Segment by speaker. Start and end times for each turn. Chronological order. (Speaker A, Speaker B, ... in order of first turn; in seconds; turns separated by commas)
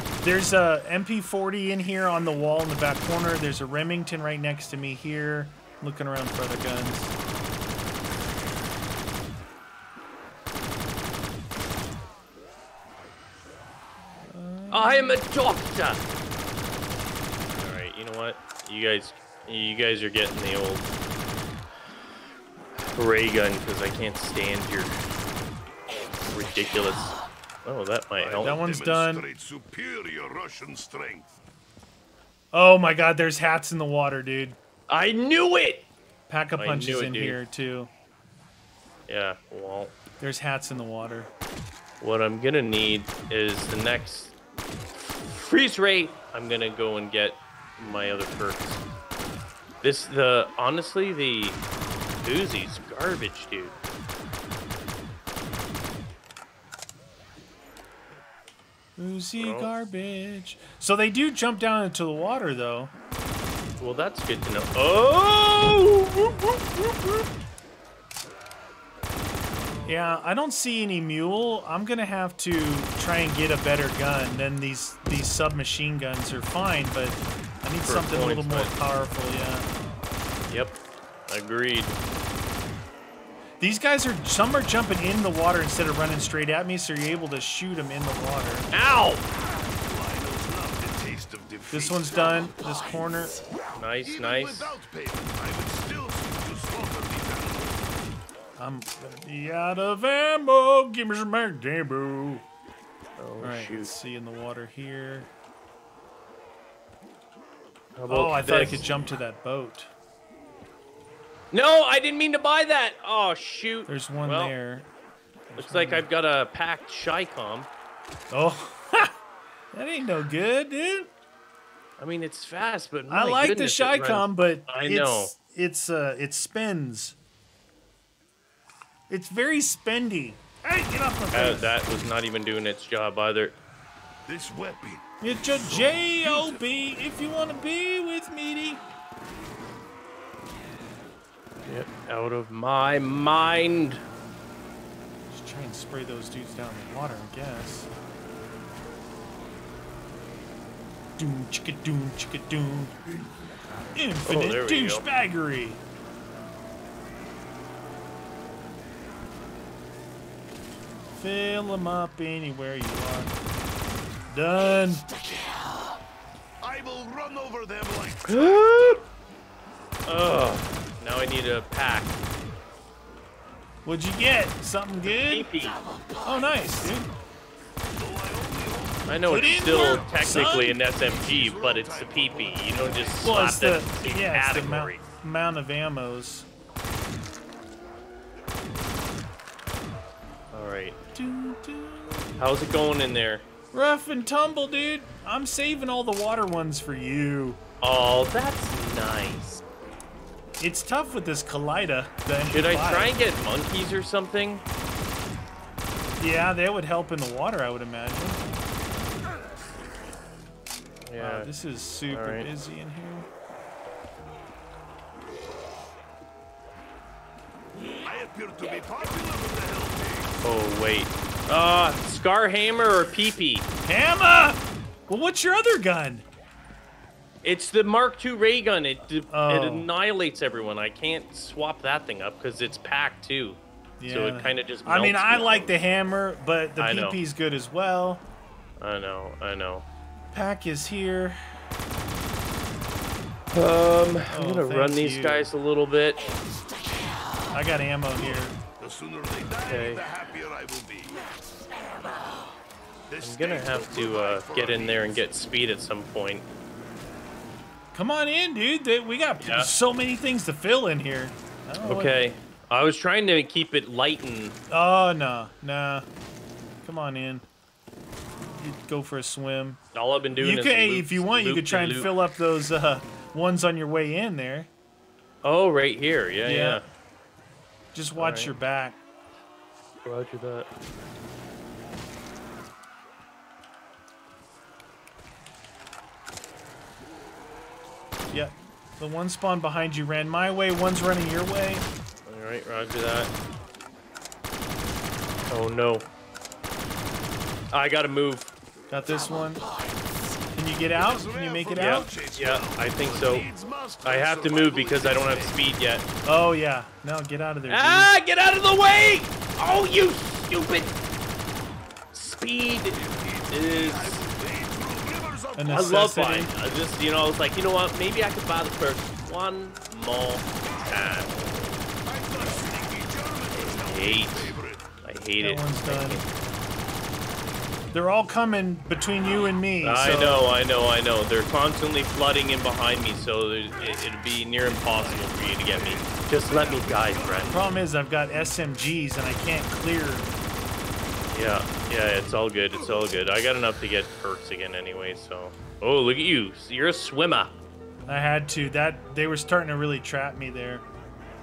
Speaker A: 0.2-7.1, Speaker A: 14.2-15.2, Speaker B: 14.7-16.0, Speaker B: 17.5-20.9, Speaker B: 22.8-24.9, Speaker B: 26.3-28.6, Speaker C: 28.2-31.3, Speaker A: 28.4-29.3, Speaker A: 32.5-34.6, Speaker B: 34.9-35.9, Speaker A: 36.3-37.9, Speaker B: 36.6-37.4, Speaker B: 39.1-39.9, Speaker A: 40.2-41.3, Speaker B: 42.0-44.3, Speaker B: 45.1-48.8, Speaker B: 49.8-51.6, Speaker B: 52.2-53.8, Speaker A: 59.0-62.9, Speaker B: 59.4-59.7, Speaker B: 63.8-67.0, Speaker A: 69.9-79.7, Speaker B: 77.8-78.7, Speaker B: 80.5-82.0, Speaker A: 83.6-88.7, Speaker B: 88.7-89.2, Speaker C: 89.5-92.5, Speaker A: 91.7-93.4, Speaker B: 93.8-94.8, Speaker C: 94.0-98.0, Speaker A: 98.6-102.4, Speaker B: 103.2-103.9, Speaker A: 103.4-105.3, Speaker B: 108.0-108.9, Speaker A: 108.1-109.9, Speaker B: 111.5-114.5, Speaker A: 113.9-114.9, Speaker A: 115.5-116.1, Speaker B: 115.6-117.7, Speaker A: 118.3-119.1, Speaker A: 119.7-121.1, Speaker B: 122.0-125.3, Speaker A: 123.1-127.2, Speaker A: 129.1-131.7, Speaker B: 131.3-133.5, Speaker C: 134.3-136.7, Speaker A: 135.2-138.8, Speaker B: 141.7-144.0, Speaker A: 145.3-147.9, Speaker A: 151.2-153.0, Speaker A: 153.9-155.8, Speaker B: 154.2-155.1, Speaker A: 161.2-163.4, Speaker A: 164.3-165.1, Speaker C: 166.6-169.1, Speaker B: 168.3-169.0, Speaker B: 170.1-172.2, Speaker A: 173.8-175.5, Speaker B: 175.1-175.8, Speaker A: 176.2-177.1, Speaker C: 177.9-183.3, Speaker B: 179.1-185.0, Speaker A: 179.3-180.8, Speaker A: 183.2-186.5, Speaker B: 190.5-191.0, Speaker A: 191.1-192.4, Speaker B: 192.4-193.4, Speaker A: 193.7-197.6, Speaker B: 197.8-199.6, Speaker A: 200.6-203.2, Speaker B: 202.4-204.6, Speaker A: 206.2-208.5, Speaker B: 211.0-211.5, Speaker A: 211.2-213.3, Speaker B: 212.1-212.5, Speaker C: 218.0-220.5, Speaker B: 220.4-223.7, Speaker A: 223.8-226.2, Speaker B: 227.4-235.7, Speaker A: 229.3-229.9, Speaker A: 234.0-238.2, Speaker B: 236.8-237.2, Speaker B: 238.8-239.8, Speaker A: 240.3-241.4, Speaker B: 243.5-246.2, Speaker A: 244.3-245.5, Speaker A: 247.5-248.6, Speaker C: 248.2-251.2, Speaker B: 249.6-250.1, Speaker C: 253.1-255.2, Speaker B: 253.2-256.4, Speaker A: 257.9-262.2, Speaker B: 259.4-259.7, Speaker B: 261.9-264.6, Speaker A: 264.7-266.1, Speaker A: 266.8-267.4, Speaker A: 268.6-269.8, Speaker B: 269.9-272.1, Speaker A: 270.4-274.7, Speaker B: 275.4-276.8, Speaker A: 276.4-276.8, Speaker A: 277.9-279.0, Speaker B: 278.2-278.5, Speaker B: 280.1-280.7, Speaker A: 288.3-291.9, Speaker B: 292.3-293.3, Speaker B: 295.5-296.1, Speaker B: 297.7-298.5, Speaker A: 298.9-299.6, Speaker A: 300.5-302.1, Speaker C: 300.9-305.6, Speaker B: 301.8-303.5, Speaker B: 304.0-306.1, Speaker A: 306.2-308.1, Speaker B: 307.7-310.9, Speaker B: 312.1-313.0, Speaker C: 312.9-316.1, Speaker B: 313.5-314.2, Speaker A: 315.6-316.5, Speaker B: 315.7-321.4, Speaker C: 322.1-324.9, Speaker B: 323.8-326.3, Speaker A: 325.4-326.2, Speaker A: 327.9-330.4, Speaker B: 329.8-337.6, Speaker C: 333.7-337.7, Speaker A: 337.5-340.3, Speaker B: 341.3-347.6, Speaker C: 342.8-343.2, Speaker A: 348.1-350.9